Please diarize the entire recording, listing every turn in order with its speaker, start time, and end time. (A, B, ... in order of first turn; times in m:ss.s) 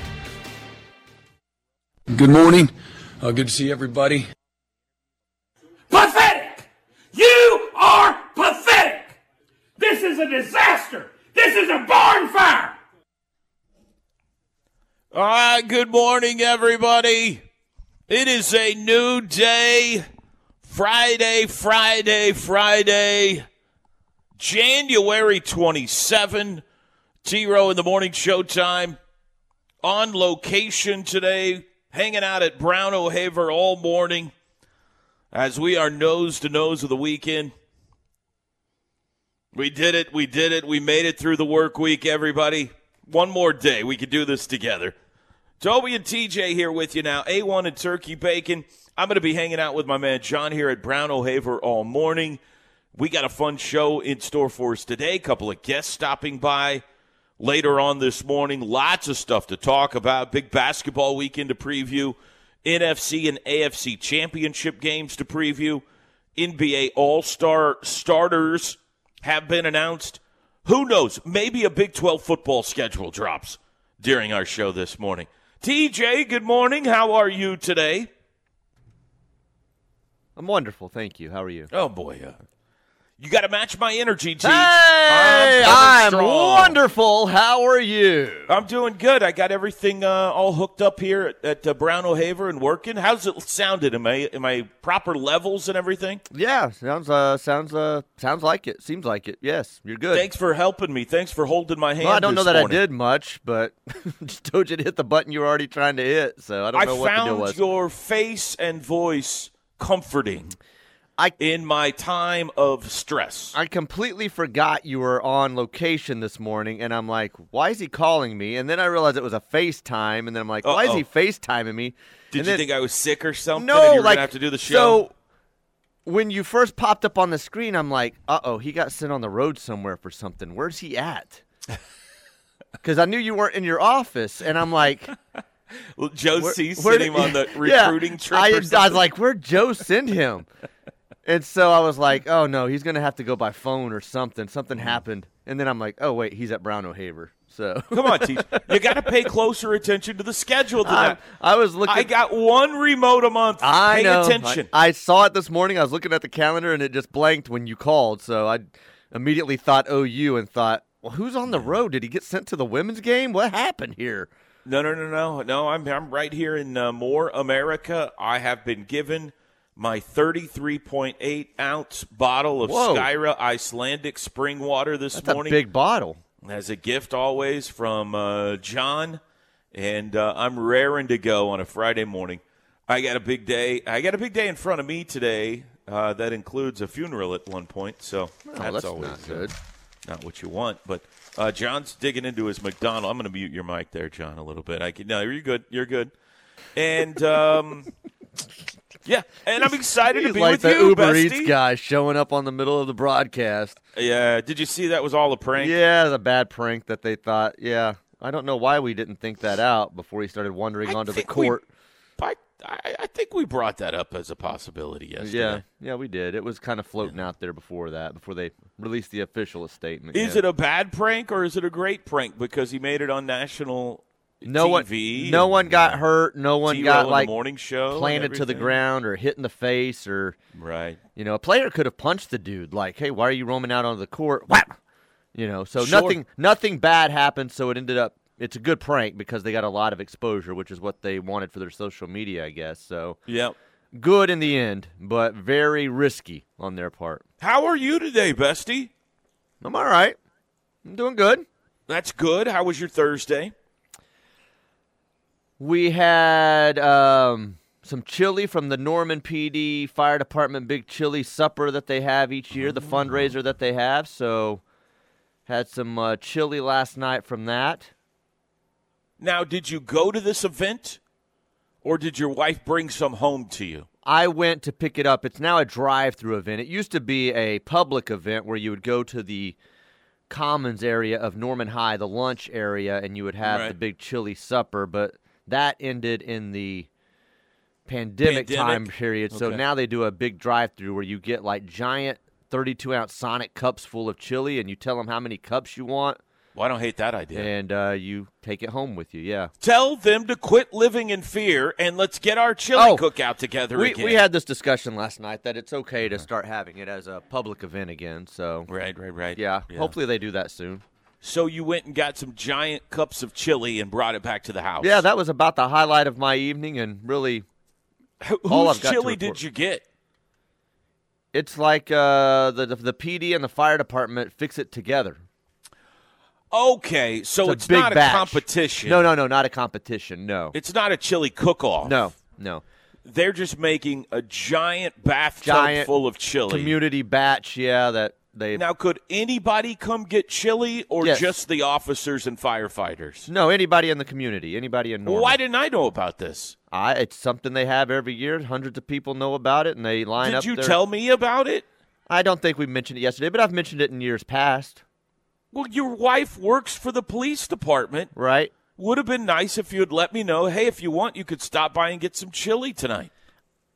0:02.1-0:04.3 A
0:05.9-0:09.2 B
0:09.8-0:12.8 B
0:15.1-0:17.4 C
0:18.1-0:20.0 C
0:20.6-0:23.4 C
0:24.4-0:26.6 C
0:27.2-0:29.0 C
0:29.8-0:34.3 C
0:35.3-0:37.5 C
0:39.5-0:44.9 C
0:45.6-0:52.4 C
0:52.9-0:56.8 C
0:57.4-1:05.8 C
1:06.4-1:18.1 C
1:20.4-1:21.7 D
1:21.7-1:22.4 C
1:23.2-1:26.8 C
1:24.4-1:28.5 D
1:28.5-1:36.2 C
1:36.3-1:40.2 D
1:40.1-1:42.8 C
1:42.0-1:47.6 D
1:46.7-1:50.6 C
1:51.4-1:53.6 C
1:53.5-2:02.6 D
2:00.6-2:01.0 C
2:02.3-2:05.0 C
2:03.6-2:05.1 D
2:06.0-2:11.4 D
2:12.8-2:15.1 D
2:16.0-2:19.0 C
2:16.4-2:20.5 D
2:21.2-2:29.0 D
2:27.9-2:31.2 C
2:30.8-2:32.1 D
2:31.9-2:34.7 C
2:33.6-2:44.3 D
2:44.6-2:55.6 C
2:52.6-2:53.1 D
2:55.1-2:56.2 D
2:56.4-2:59.2 C
2:59.7-3:09.5 C
3:08.5-3:09.5 D
3:10.0-3:16.1 C
3:16.8-3:17.9 C
3:19.0-3:21.5 C
3:20.1-3:23.8 D
3:23.9-3:25.8 C
3:25.6-3:31.6 D
3:30.9-3:31.6 C
3:32.2-3:35.6 C
3:35.2-3:40.4 D
3:40.1-3:46.0 C
3:44.4-3:47.3 D
3:46.6-3:48.8 C
3:47.9-3:50.4 D
3:50.5-3:51.0 C
3:51.2-3:54.8 D
3:55.3-4:03.2 D
3:55.8-3:56.2 C
4:03.3-4:03.5 C
4:03.9-4:07.2 D
4:07.4-4:08.9 C
4:09.6-4:10.2 D
4:10.8-4:11.4 D
4:11.9-4:13.5 C
4:15.6-4:24.6 D
4:25.5-4:27.9 D
4:29.2-4:31.0 C
4:31.8-4:33.9 C
4:34.0-4:39.6 D
4:40.3-4:46.9 D
4:43.4-4:43.8 C
4:47.9-4:56.2 D
4:48.2-4:49.6 C
4:56.5-4:57.5 C
4:57.3-4:59.5 D
4:59.6-5:04.2 C
5:02.8-5:03.0 D
5:03.7-5:08.7 D
5:08.7-5:09.9 C
5:09.4-5:10.8 D
5:11.2-5:15.0 C
5:14.8-5:17.4 D
5:18.2-5:19.8 C
5:18.5-5:19.4 D
5:21.3-5:25.2 D
5:26.5-5:29.0 C
5:27.4-5:30.6 D
5:30.5-5:32.0 C
5:31.8-5:32.6 D
5:33.0-5:36.8 C
5:35.4-5:35.9 D
5:36.5-5:38.6 D
5:38.5-5:43.3 C
5:41.0-5:41.3 D
5:43.3-5:45.4 D
5:45.0-5:46.6 C
5:46.7-5:50.8 D
5:50.2-5:51.6 C
5:52.1-5:54.8 D
5:55.5-5:58.1 C
5:58.1-5:58.5 D
5:58.8-6:03.1 C